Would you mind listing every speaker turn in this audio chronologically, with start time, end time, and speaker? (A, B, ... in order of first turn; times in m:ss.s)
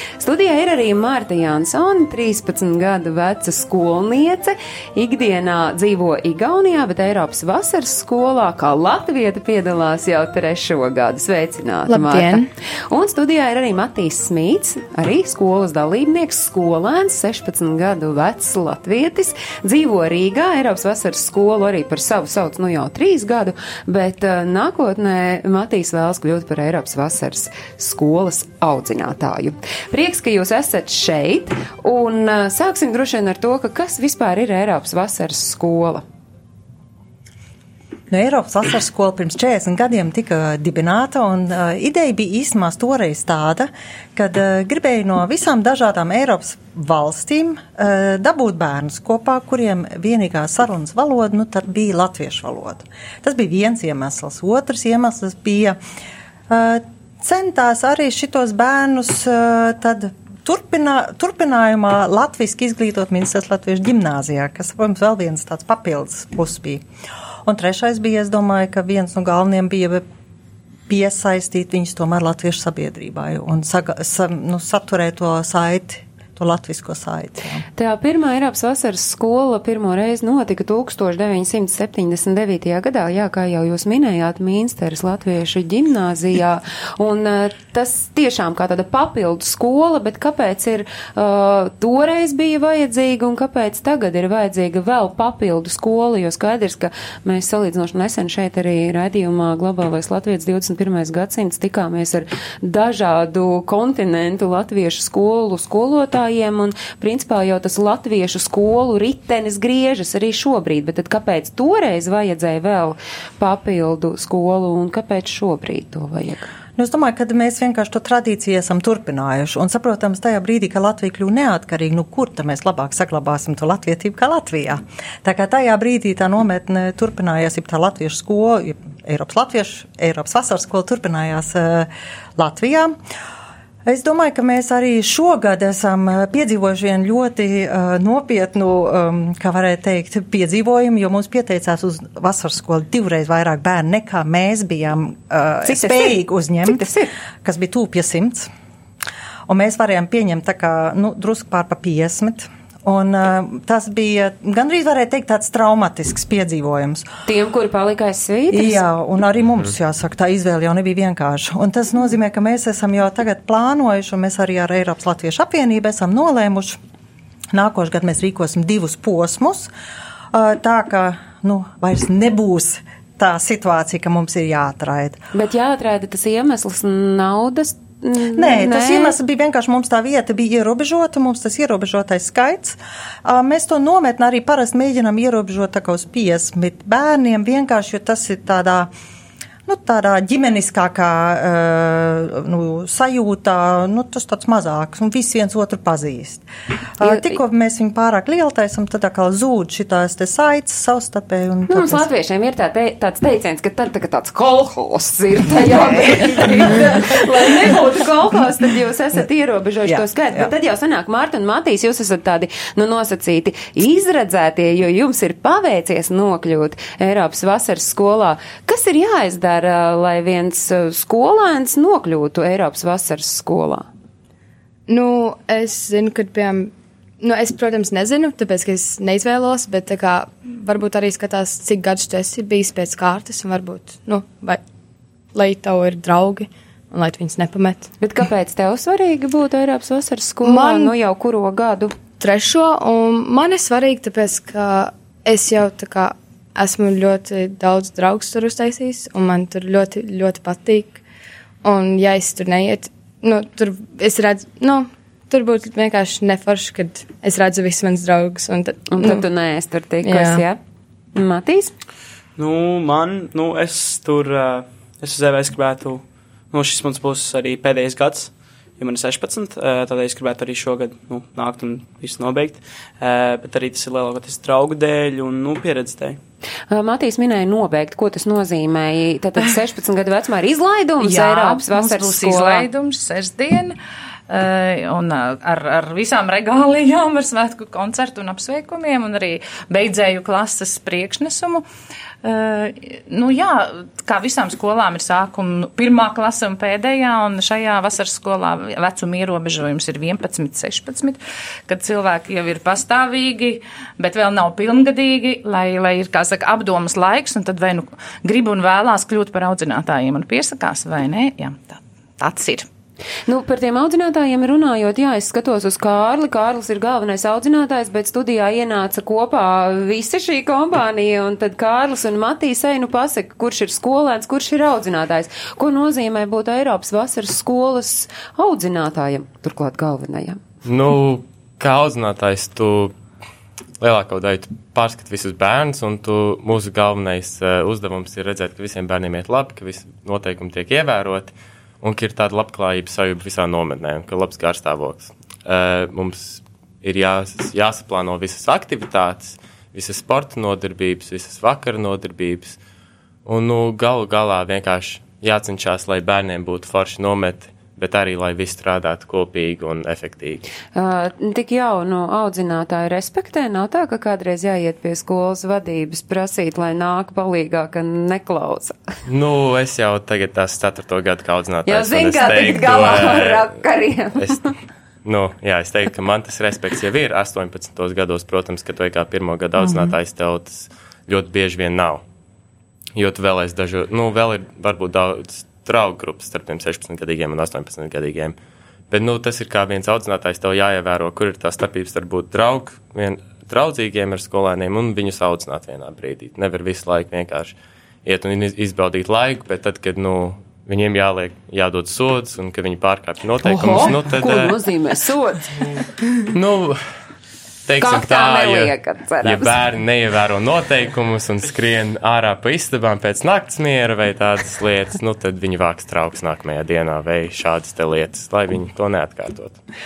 0:00.2-0:36.0 A
0:11.9-0:12.5 B
0:38.1-0:55.8 C
0:56.5-1:06.8 C
1:07.4-1:10.0 C
1:10.9-1:17.6 C
1:17.8-1:56.5 A
1:56.8-2:13.0 C
2:13.9-2:26.9 C
2:25.6-2:27.1 A
2:27.4-2:28.5 C
2:29.5-2:37.1 C
2:37.3-2:38.8 A
2:38.5-2:46.8 C
2:47.5-2:49.7 C
2:50.3-2:55.2 C
2:55.3-2:59.2 A
2:58.3-3:08.9 C
3:09.7-3:16.5 C
3:17.0-3:22.1 C
3:17.0-3:17.4 A
3:21.7-3:43.9 A
3:25.5-3:27.8 C
3:29.8-3:30.5 C
3:44.9-3:54.6 B
3:55.3-3:57.9 B
3:58.0-4:02.0 A
4:00.4-4:01.0 B
4:02.2-4:11.0 B
4:11.6-4:19.2 B
4:18.9-4:20.6 A
4:20.0-4:20.4 B
4:21.2-4:21.7 A
4:22.4-4:36.2 D
4:36.7-4:42.7 A
4:41.0-4:43.8 E
4:44.3-4:51.6 E
4:52.2-5:12.7 E
5:13.3-5:30.4 A
5:30.6-5:33.0 F
5:33.8-5:52.6 F
5:53.2-6:00.4 F
6:00.8-6:08.8 A
6:09.1-6:13.6 F
6:11.7-6:14.3 A
6:15.0-6:22.0 F
6:23.0-6:28.4 F
6:28.9-6:44.6 F
6:43.4-6:45.5 A
6:46.3-6:46.8 F
6:47.7-6:59.6 F
6:47.8-6:49.6 A